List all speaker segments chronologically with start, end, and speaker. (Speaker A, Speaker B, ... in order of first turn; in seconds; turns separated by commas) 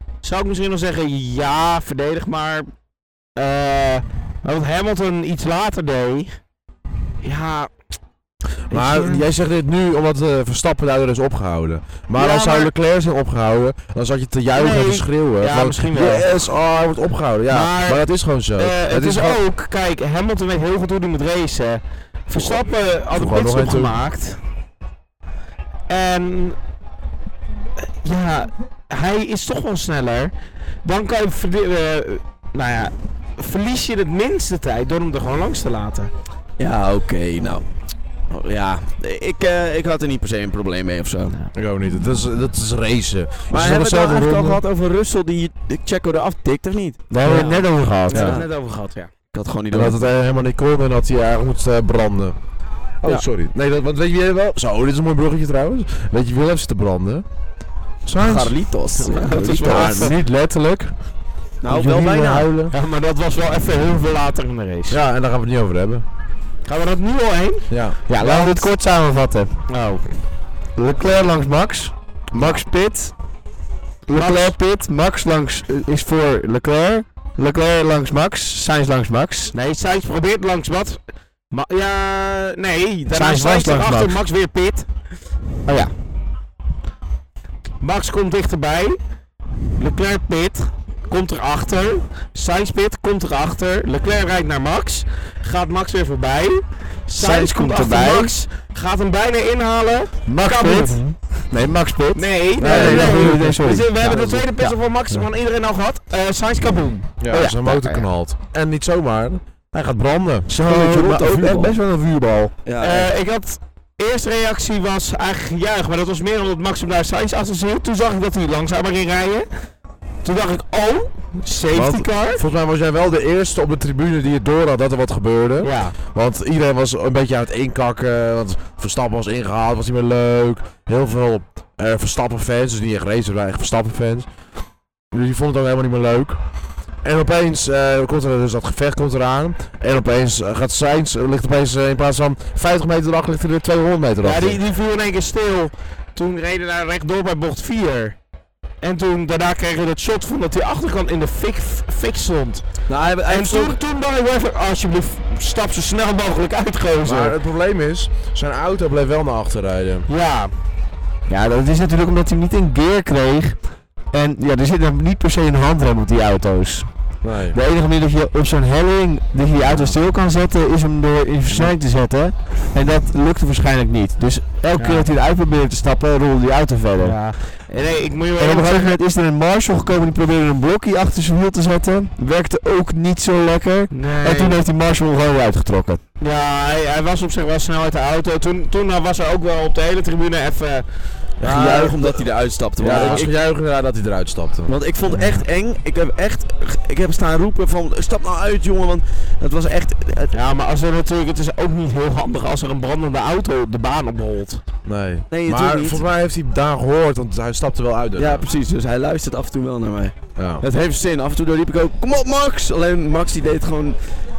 Speaker A: 0.2-2.7, Speaker A: 3.3-6.3, Speaker A: 7.2-7.7, Speaker A: 8.7-9.3, Speaker B: 8.7-19.4, Speaker A: 12.1-12.7, Speaker A: 14.5-16.3, Speaker A: 17.5-24.4, Speaker B: 22.3-23.9, Speaker A: 25.9-26.6, Speaker A: 27.8-30.3, Speaker A: 30.8-36.1, Speaker C: 36.6-37.7, Speaker C: 38.3-41.4, Speaker B: 41.5-44.6, Speaker C: 43.5-47.0, Speaker D: 47.1-48.4, Speaker B: 47.2-47.5, Speaker A: 47.2-49.1, Speaker B: 48.1-48.4, Speaker C: 48.1-48.5, Speaker C: 49.3-50.0, Speaker B: 49.7-52.4, Speaker B: 53.0-57.2, Speaker B: 58.0-58.6, Speaker C: 58.2-60.1, Speaker A: 59.0-60.1, Speaker D: 59.2-60.9, Speaker C: 61.6-62.5, Speaker D: 61.7-62.5, Speaker B: 62.1-62.7, Speaker A: 62.7-65.0, Speaker B: 64.9-66.0, Speaker A: 66.7-68.7, Speaker B: 67.7-68.0, Speaker D: 68.1-69.5, Speaker A: 69.7-70.1, Speaker D: 70.8-73.1, Speaker D: 74.1-79.5, Speaker A: 74.1-74.5, Speaker A: 79.5-81.0, Speaker A: 81.5-84.9, Speaker D: 83.1-84.2, Speaker D: 85.7-85.9, Speaker A: 87.8-89.0, Speaker A: 89.8-101.0, Speaker D: 97.1-98.3, Speaker D: 100.3-104.7, Speaker A: 102.1-108.0, Speaker B: 102.6-103.4, Speaker B: 107.2-111.7, Speaker D: 107.3-107.8, Speaker D: 110.5-112.5, Speaker C: 112.6-113.1, Speaker A: 112.8-119.5, Speaker A: 120.2-122.4, Speaker B: 121.7-134.3, Speaker A: 125.6-126.0, Speaker B: 135.1-136.4, Speaker B: 137.0-144.6, Speaker A: 144.2-148.2, Speaker A: 148.8-152.6, Speaker C: 152.9-153.8, Speaker A: 153.2-157.3, Speaker B: 157.0-160.1, Speaker A: 160.1-160.5, Speaker D: 161.3-163.6, Speaker D: 164.1-166.9, Speaker B: 167.2-167.6, Speaker D: 167.5-177.2, Speaker A: 169.6-169.9, Speaker A: 171.5-171.7, Speaker A: 174.8-175.1, Speaker A: 177.0-179.0, Speaker D: 178.4-186.0, Speaker A: 183.9-184.6, Speaker A: 186.2-190.8, Speaker B: 191.4-192.2, Speaker C: 191.4-193.3, Speaker B: 192.8-194.7, Speaker A: 192.8-193.3, Speaker C: 194.7-200.3, Speaker A: 195.1-195.4, Speaker A: 200.3-204.6, Speaker B: 204.8-208.4, Speaker C: 205.3-206.0, Speaker C: 208.2-214.2, Speaker B: 210.3-210.6